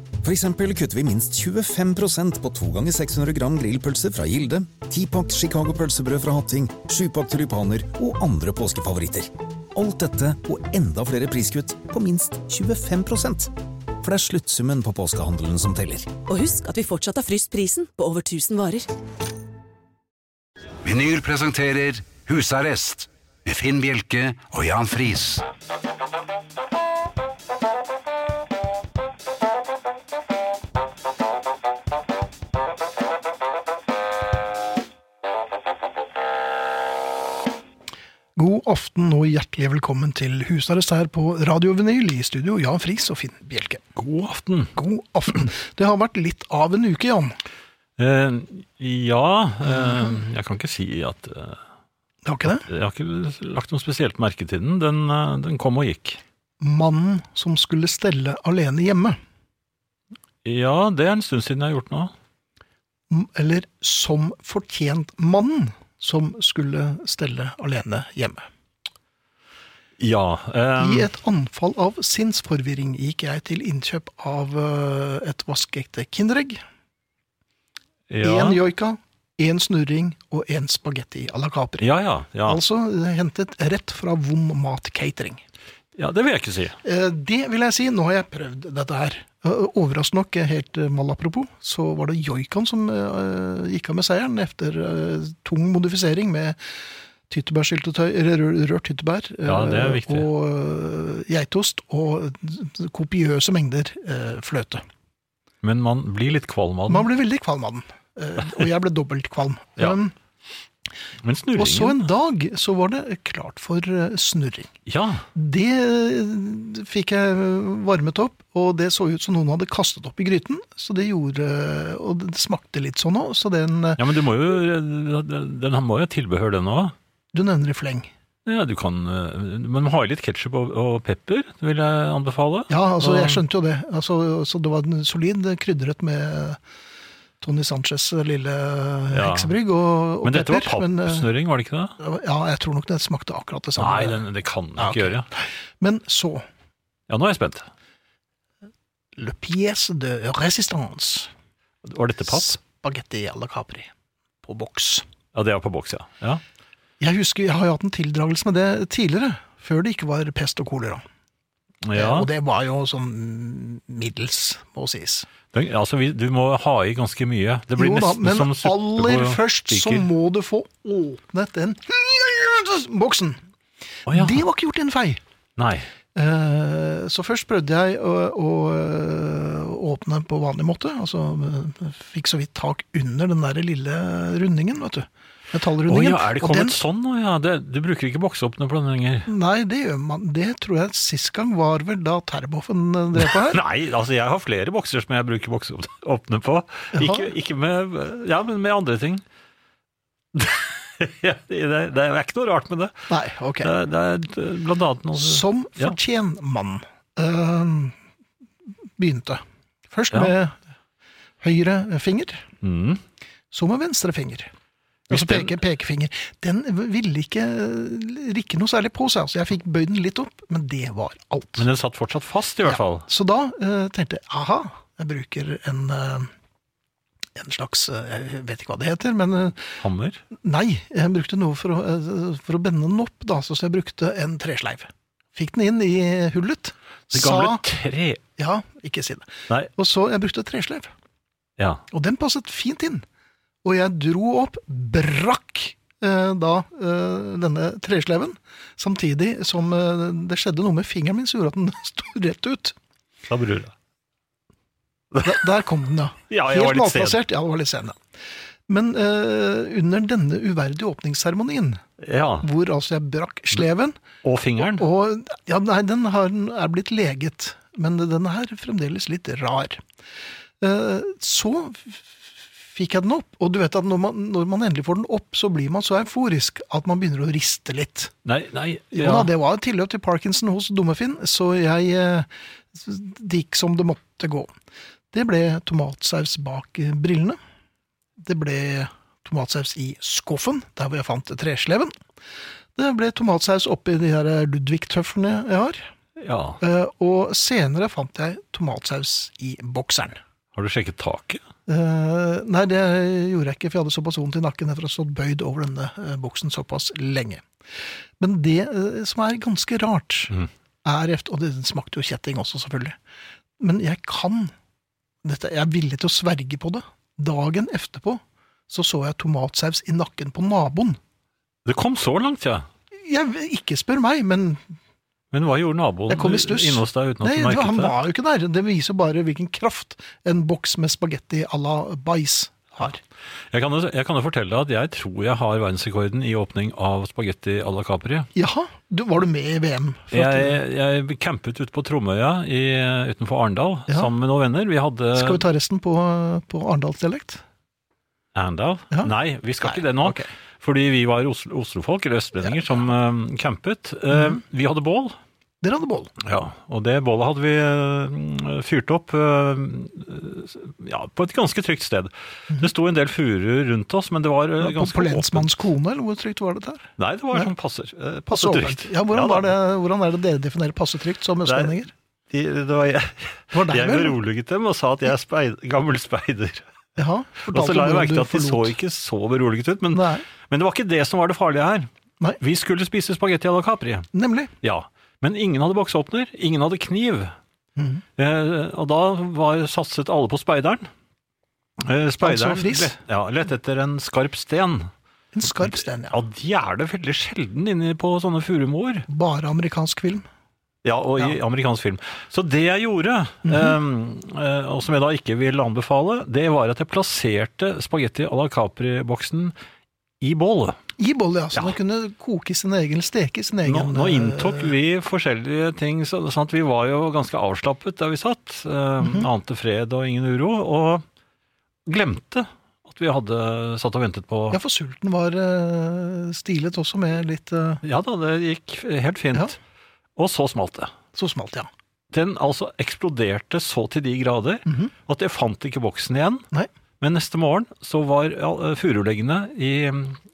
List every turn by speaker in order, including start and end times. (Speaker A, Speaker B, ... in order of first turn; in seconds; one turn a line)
Speaker A: 0.2-16.1
Speaker B: 16.3-18.9
Speaker C: 20.8-25.4
Speaker D: 38.4-43.8
Speaker E: 44.0-44.7
Speaker D: 44.7-47.4
Speaker E: 48.0-51.6
Speaker D: 49.7-50.1
Speaker D: 52.2-52.6
Speaker E: 52.6-56.2
Speaker D: 56.6-59.2
Speaker E: 60.4-62.1
Speaker D: 63.1-68.5
Speaker E: 70.0-71.1
Speaker D: 70.8-76.6
Speaker E: 78.1-78.6
Speaker D: 78.2-81.9
Speaker E: 81.8-82.6
Speaker D: 82.5-85.4
Speaker E: 86.0-86.8
Speaker D: 86.8-96.6
Speaker D: 97.3-104.8
Speaker E: 99.4-100.3
Speaker E: 105.6-107.1
Speaker D: 106.9-110.1
Speaker E: 111.2-112.0
Speaker D: 111.5-114.7
Speaker E: 114.9-115.2
Speaker D: 115.3-124.0
Speaker E: 124.0-126.9
Speaker D: 127.3-128.1
Speaker E: 128.4-133.4
Speaker D: 132.7-136.6
Speaker D: 137.4-141.3
Speaker E: 139.1-139.6
Speaker E: 140.2-141.9
Speaker D: 142.0-144.2
Speaker E: 143.8-145.3
Speaker D: 144.8-146.4
Speaker E: 147.1-147.7
Speaker D: 149.2-151.3
Speaker E: 151.8-152.6
Speaker D: 152.3-153.9
Speaker D: 154.4-155.0
Speaker E: 155.3-156.4
Speaker D: 157.0-161.0
Speaker E: 161.8-162.3
Speaker D: 161.9-165.3
Speaker E: 165.5-170.1
Speaker D: 167.8-173.4
Speaker E: 174.1-174.4
Speaker D: 174.1-175.2
Speaker E: 175.6-175.9
Speaker D: 176.1-186.8
Speaker E: 185.9-189.3
Speaker D: 189.3-193.6
Speaker E: 193.2-199.2
Speaker D: 196.9-197.3
Speaker E: 200.3-203.1
Speaker D: 203.1-203.7
Speaker E: 203.6-205.9
Speaker D: 205.2-207.9
Speaker D: 209.0-210.6
Speaker D: 211.4-212.4
Speaker E: 212.6-213.0
Speaker D: 213.5-214.5
Speaker E: 215.1-215.6
Speaker D: 215.1-221.7
Speaker E: 221.6-223.1
Speaker D: 222.7-226.3
Speaker D: 227.3-229.8
Speaker E: 229.8-230.2
Speaker D: 230.4-237.6
Speaker E: 237.1-238.2
Speaker D: 238.4-240.9
Speaker D: 241.9-243.0
Speaker D: 243.6-252.8
Speaker E: 253.3-253.7
Speaker D: 255.2-258.0
Speaker E: 256.3-257.2
Speaker D: 258.7-261.8
Speaker E: 262.0-262.4
Speaker D: 262.4-264.0
Speaker E: 264.2-264.9
Speaker D: 264.6-269.8
Speaker D: 270.6-278.1
Speaker E: 278.2-279.3
Speaker D: 278.9-284.5
Speaker D: 285.1-287.4
Speaker D: 288.2-291.9
Speaker D: 292.8-295.9
Speaker E: 296.2-296.6
Speaker D: 296.6-300.2
Speaker E: 300.5-301.4
Speaker D: 301.7-307.4
Speaker D: 308.2-310.3
Speaker D: 310.8-312.9
Speaker D: 313.6-314.5
Speaker D: 315.2-321.0
Speaker E: 321.6-322.7
Speaker D: 322.9-324.6
Speaker E: 325.3-327.9
Speaker D: 326.1-333.0
Speaker E: 333.5-338.3
Speaker D: 338.3-340.6
Speaker E: 340.1-345.4
Speaker D: 345.1-347.4
Speaker E: 348.3-355.1
Speaker D: 348.9-350.3
Speaker D: 352.4-352.9
Speaker D: 354.1-354.4
Speaker D: 355.6-356.1
Speaker E: 356.2-365.5
Speaker D: 364.6-367.5
Speaker E: 367.0-369.5
Speaker D: 368.3-371.9
Speaker E: 371.4-371.8
Speaker E: 372.3-376.6
Speaker D: 373.5-374.2
Speaker D: 377.0-378.7
Speaker E: 377.4-384.1
Speaker D: 379.9-380.2
Speaker D: 384.1-384.5
Speaker E: 384.6-387.3
Speaker D: 387.8-388.0
Speaker E: 388.2-390.9
Speaker E: 391.8-394.9
Speaker D: 392.2-392.9
Speaker D: 395.3-396.2
Speaker E: 395.6-399.1
Speaker D: 399.1-400.2
Speaker E: 400.8-409.5
Speaker D: 403.5-403.7
Speaker E: 410.2-410.8
Speaker D: 411.0-414.7
Speaker E: 413.6-421.0
Speaker D: 419.0-419.3
Speaker E: 421.9-424.6
Speaker D: 424.5-427.8
Speaker E: 427.8-429.6
Speaker E: 430.2-430.9
Speaker D: 431.1-431.7
Speaker E: 432.1-436.5
Speaker D: 434.6-434.9
Speaker E: 437.0-440.2